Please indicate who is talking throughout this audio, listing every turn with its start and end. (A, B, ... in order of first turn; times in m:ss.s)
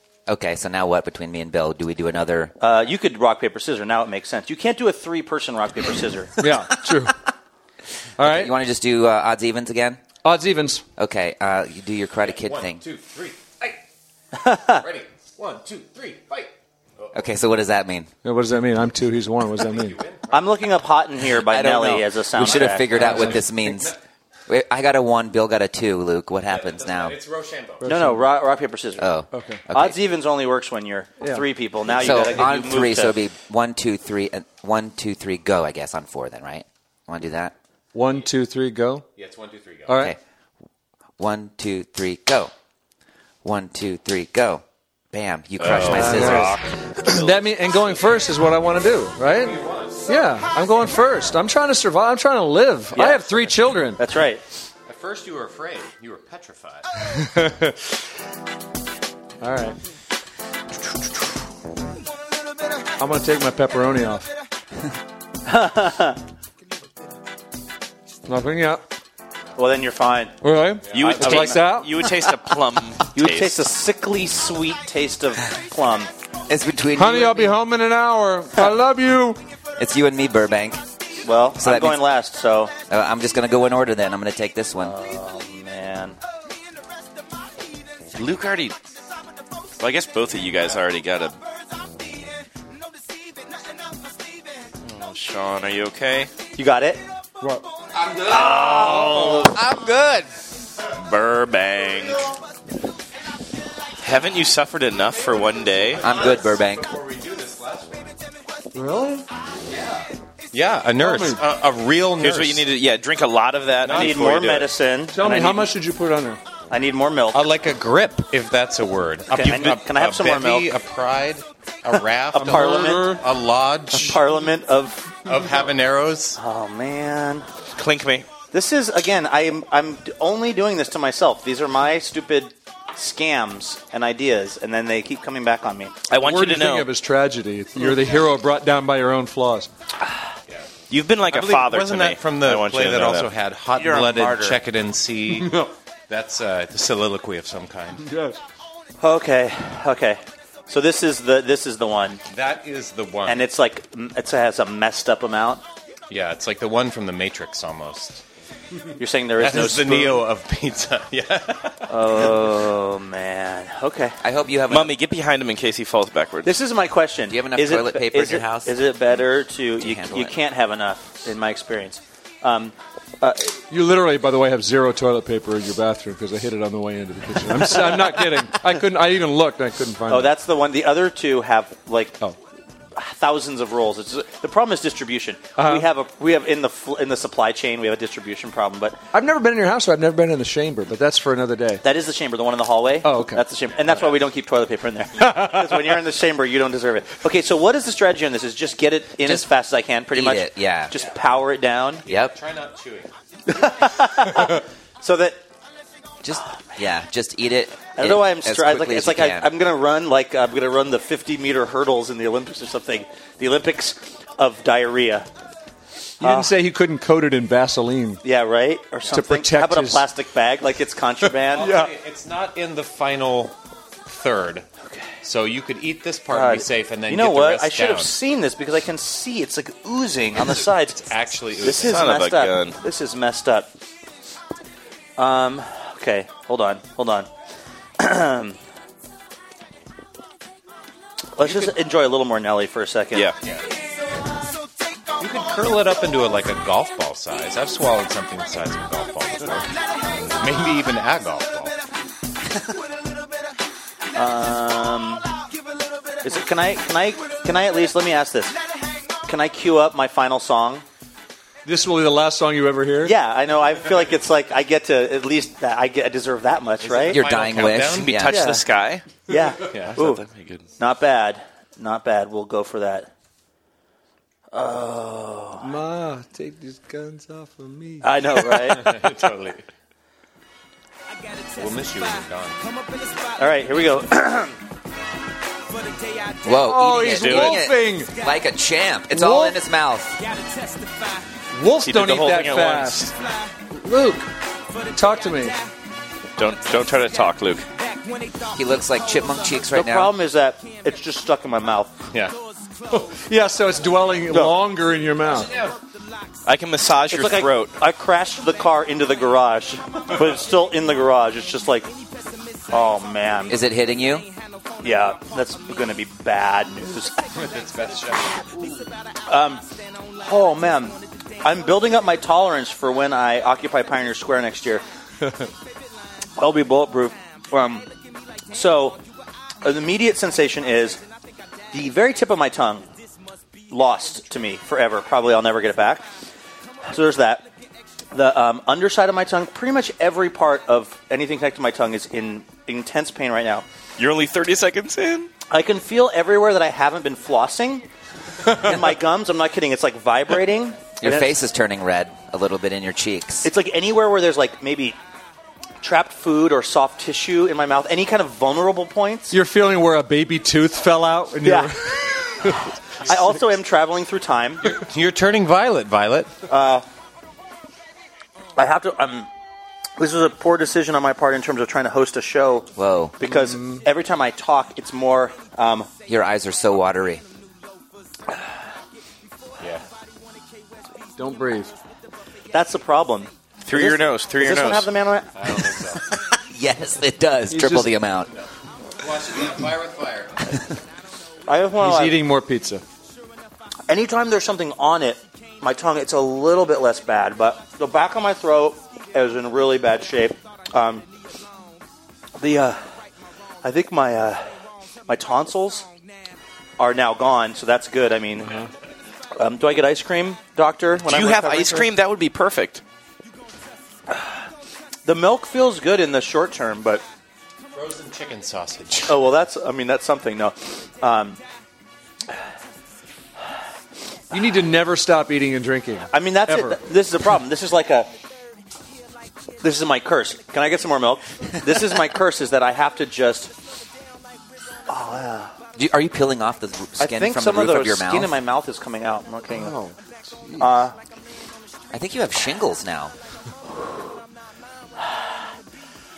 0:00.3-0:02.5 A
0:02.6-0:06.4 B
0:06.4-0:07.2 C
0:08.2-0:08.5 C
0:08.2-0:10.0 A
0:10.2-0:10.8 C
0:11.0-0:12.8 A
0:12.2-0:13.8 D
0:14.4-0:14.8 B
0:14.7-0:17.2 D
0:17.1-0:18.1 A
0:18.2-0:20.0 C
0:19.5-0:20.5 D
0:20.3-0:23.3 B
0:21.3-0:23.9 A
0:22.4-0:24.0 D
0:23.0-0:23.3 C
0:24.5-0:27.2 A
0:26.5-0:27.9 D
0:27.8-0:28.2 C
0:27.8-0:29.2 B
0:29.0-0:30.0 A
0:29.3-0:29.6 C
0:29.7-0:33.2 B
0:31.2-0:31.5 C
0:32.0-0:37.5 A
0:37.9-0:39.0 C
0:39.2-0:40.0 D
0:39.9-0:40.2 C
0:41.2-0:42.5 A
0:43.4-0:46.5 A
0:45.6-0:47.4 E
0:46.0-0:46.5 C
0:47.1-0:54.0 C
0:49.3-0:50.1 D
0:53.0-0:53.3 B
0:54.0-0:54.4 B
0:54.8-0:56.9 D
0:57.2-0:57.8 C
0:59.4-0:59.8 C
1:03.0-1:04.3 C
1:05.5-1:06.2 B
1:08.3-1:08.8 C
1:09.6-1:10.4 B
1:10.4-1:11.9 C
1:10.8-1:11.2 D
1:10.9-1:13.6 E
1:10.9-1:11.6 B
1:13.1-1:16.1 B
1:16.5-1:17.6 A
1:17.0-1:19.4 C
1:19.8-1:20.8 A
1:21.2-1:22.8 B
1:21.6-1:22.1 A
1:22.9-1:25.0 A
1:24.8-1:26.2 B
1:28.1-1:28.8 E
1:29.8-1:31.4 E
1:34.8-1:36.3 E
1:36.6-1:37.0 B
1:38.3-1:39.6 B
1:38.8-1:40.3 E
1:41.0-1:42.3 E
1:44.0-1:46.0 E
1:45.8-1:48.2 D
1:46.0-1:46.9 A
1:48.7-1:49.2 C
1:49.7-1:52.7 D
1:51.0-1:51.4 C
1:52.2-1:54.7 E
1:53.8-1:54.4 D
1:53.9-1:55.7 B
1:55.1-1:56.4 C
1:56.7-1:57.4 B
1:57.3-2:04.2 D
1:59.3-2:00.7 B
2:02.4-2:03.2 C
2:02.4-2:03.2 B
2:04.0-2:05.2 B
2:05.2-2:06.4 D
2:06.4-2:07.5 B
2:07.8-2:08.4 E
2:08.4-2:16.0 B
2:16.1-2:16.9 E
2:16.1-2:19.7 C
2:20.9-2:24.6 E
2:21.3-2:28.1 D
2:25.4-2:25.7 C
2:28.0-2:28.4 C
2:29.0-2:32.2 B
2:32.3-2:33.5 D
2:33.3-2:35.6 B
2:36.1-2:38.2 D
2:39.0-2:40.2 B
2:39.4-2:42.4 D
2:41.9-2:44.2 B
2:44.2-2:44.9 A
2:44.7-2:46.6 E
2:46.4-2:53.6 B
2:47.3-2:48.8 A
2:49.8-2:50.4 A
2:53.7-3:00.3 C
3:00.1-3:02.2 B
3:03.0-3:09.0 B
3:05.6-3:05.9 C
3:09.1-3:11.8 C
3:11.8-3:22.0 B
3:13.0-3:13.4 C
3:13.7-3:14.2 D
3:19.2-3:19.5 A
3:20.1-3:20.9 A
3:22.1-3:23.1 D
3:22.1-3:22.4 A
3:23.5-3:25.4 B
3:26.2-3:29.5 A
3:28.0-3:35.3 B
3:36.2-3:36.5 B
3:36.2-3:38.2 C
3:38.2-3:41.9 B
3:39.1-3:40.1 C
3:41.5-3:44.7 D
3:41.6-3:41.9 C
3:45.2-3:48.2 D
3:46.3-3:51.1 B
3:50.5-3:52.1 D
3:51.6-3:53.7 B
3:51.7-3:52.8 E
3:55.2-3:57.3 B
3:58.0-3:58.6 B
4:01.4-4:03.3 B
4:01.4-4:01.7 D
4:05.2-4:11.8 D
4:14.1-4:15.3 B
4:16.2-4:18.6 B
4:19.3-4:20.8 B
4:21.6-4:23.2 C
4:23.0-4:27.2 B
4:26.8-4:28.2 D
4:27.1-4:28.4 A
4:27.5-4:29.2 E
4:28.3-4:28.6 C
4:29.3-4:30.2 B
4:29.6-4:30.0 D
4:29.9-4:30.7 E
4:30.8-4:33.1 B
4:34.5-4:35.7 B
4:35.6-4:38.7 C
4:38.0-4:39.0 B
4:38.8-4:39.6 D
4:41.6-4:42.6 D
4:43.4-4:44.6 B
4:46.4-4:50.2 A
4:46.6-4:48.2 C
4:47.2-4:47.5 E
4:49.1-4:49.6 C
4:51.5-4:53.1 C
4:51.8-4:53.1 E
4:53.7-4:54.3 C
4:54.9-4:55.6 C
4:56.4-4:57.7 E
4:58.5-5:00.2 A
4:59.7-5:02.0 B
5:02.1-5:02.4 D
5:02.9-5:05.5 C
5:04.3-5:04.6 B
5:05.2-5:05.8 D
5:06.4-5:07.8 E
5:07.1-5:11.9 B
5:12.7-5:13.6 B
5:13.5-5:14.3 A
5:14.8-5:17.2 B
5:17.3-5:18.8 D
5:19.3-5:19.6 B
5:20.2-5:24.8 B
5:26.4-5:27.9 B
5:28.5-5:29.0 B
5:29.6-5:31.0 B
5:31.7-5:32.9 B
5:33.7-5:36.1 B
5:36.8-5:37.4 B
5:38.1-5:43.6 B
5:44.0-5:45.3 E
5:45.5-5:47.8 B
5:48.6-5:51.4 B
5:51.0-5:53.5 A
5:53.4-5:55.0 B
5:55.8-5:59.3 B
5:59.3-6:02.6 C
6:01.4-6:01.7 B
6:03.1-6:04.8 B
6:04.7-6:06.4 D
6:06.5-6:06.9 B
6:08.6-6:09.3 B
6:10.0-6:15.9 B
6:12.8-6:13.2 A
6:13.2-6:13.8 C
6:16.1-6:17.2 A
6:19.6-6:19.8 D
6:21.2-6:21.7 C
6:22.5-6:25.8 B
6:23.6-6:24.9 E
6:25.3-6:26.1 D
6:26.5-6:28.3 A
6:27.5-6:27.9 C
6:28.3-6:30.5 D
6:31.5-6:32.2 B
6:31.8-6:32.8 C
6:33.9-6:41.1 B
6:42.4-6:42.8 B
6:43.6-6:44.5 B
6:45.1-6:45.9 B
6:46.8-6:48.6 B
6:49.4-6:51.9 B
6:51.0-6:52.8 E
6:55.1-6:57.0 B
6:57.7-6:59.2 D
6:59.1-7:01.4 B
7:04.3-7:06.8 C
7:06.1-7:08.1 B
7:09.6-7:13.5 B
7:14.9-7:15.5 B
7:15.7-7:18.3 A
7:17.0-7:19.8 B
7:19.5-7:20.7 C
7:20.6-7:21.0 B
7:21.9-7:23.1 A